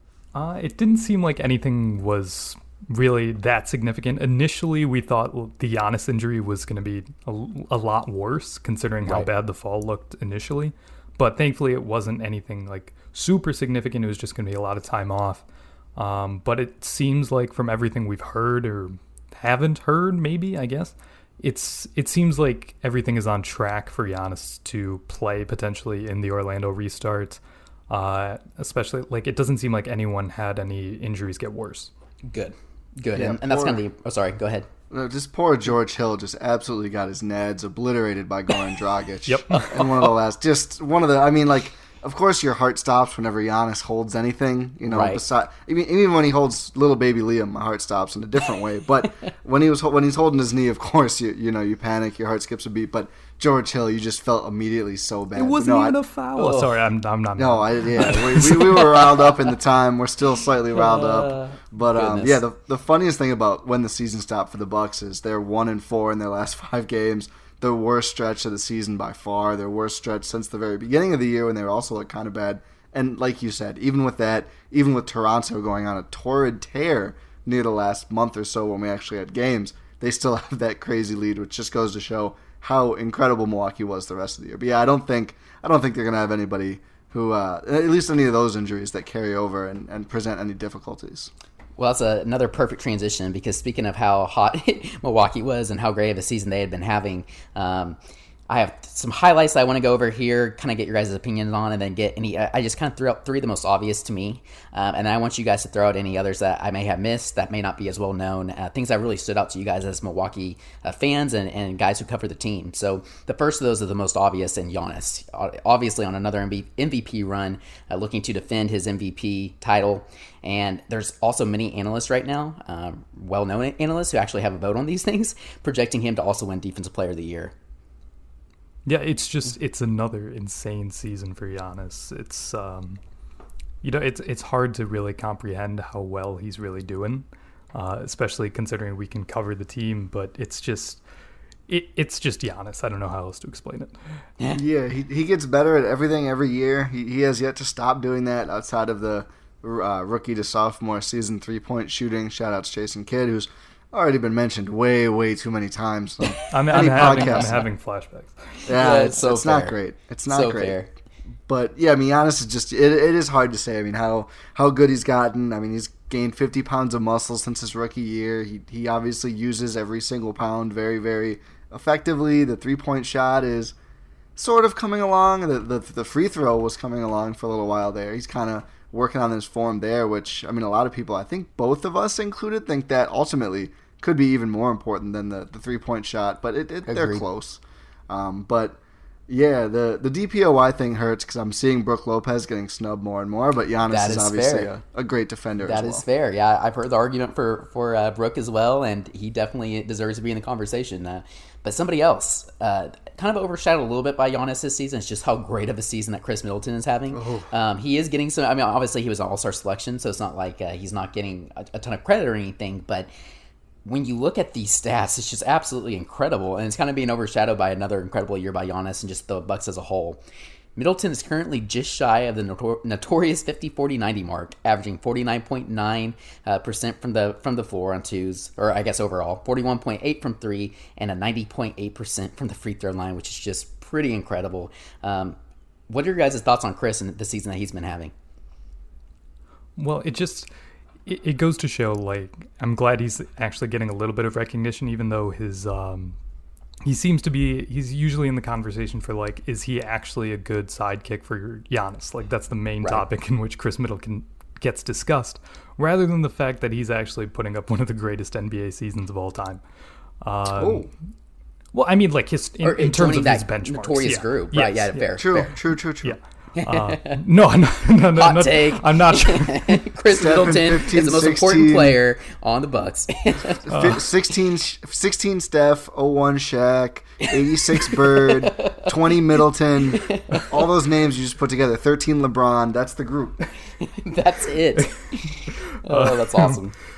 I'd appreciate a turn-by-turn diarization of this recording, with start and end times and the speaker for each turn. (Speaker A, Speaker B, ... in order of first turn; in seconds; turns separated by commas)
Speaker A: 0.3-15.4, Speaker B: 9.0-9.3, Speaker A: 15.9-31.9, Speaker B: 32.2-34.7, Speaker C: 33.1-33.8, Speaker C: 34.9-55.9, Speaker A: 39.3-40.1, Speaker B: 44.9-45.2, Speaker A: 55.4-59.0, Speaker B: 56.3-56.7, Speaker C: 57.4-91.3, Speaker B: 60.7-62.4, Speaker B: 91.8-98.0, Speaker B: 98.5-127.5, Speaker A: 128.8-133.0, Speaker A: 133.8-141.0, Speaker A: 141.7-143.9, Speaker C: 144.5-157.6, Speaker A: 156.5-158.6, Speaker B: 156.9-157.6, Speaker C: 158.7-160.8, Speaker B: 158.7-159.8, Speaker B: 160.3-160.9, Speaker C: 161.5-173.7, Speaker C: 174.4-196.0, Speaker B: 186.8-187.2, Speaker B: 193.9-194.7, Speaker B: 195.6-213.1, Speaker C: 207.1-207.5, Speaker B: 213.8-220.2, Speaker B: 220.8-235.4, Speaker B: 235.9-238.1, Speaker A: 239.8-240.5, Speaker A: 241.1-246.2, Speaker A: 246.8-259.6, Speaker A: 260.2-260.9, Speaker C: 260.5-260.9, Speaker A: 261.7-265.1, Speaker B: 262.6-265.5, Speaker C: 265.1-266.2, Speaker A: 266.0-269.8, Speaker B: 266.6-267.2, Speaker B: 268.2-273.6, Speaker C: 270.1-272.0, Speaker C: 273.6-283.5, Speaker A: 273.7-274.1, Speaker B: 277.3-279.2, Speaker B: 279.9-280.7, Speaker B: 283.8-286.7, Speaker A: 284.8-286.6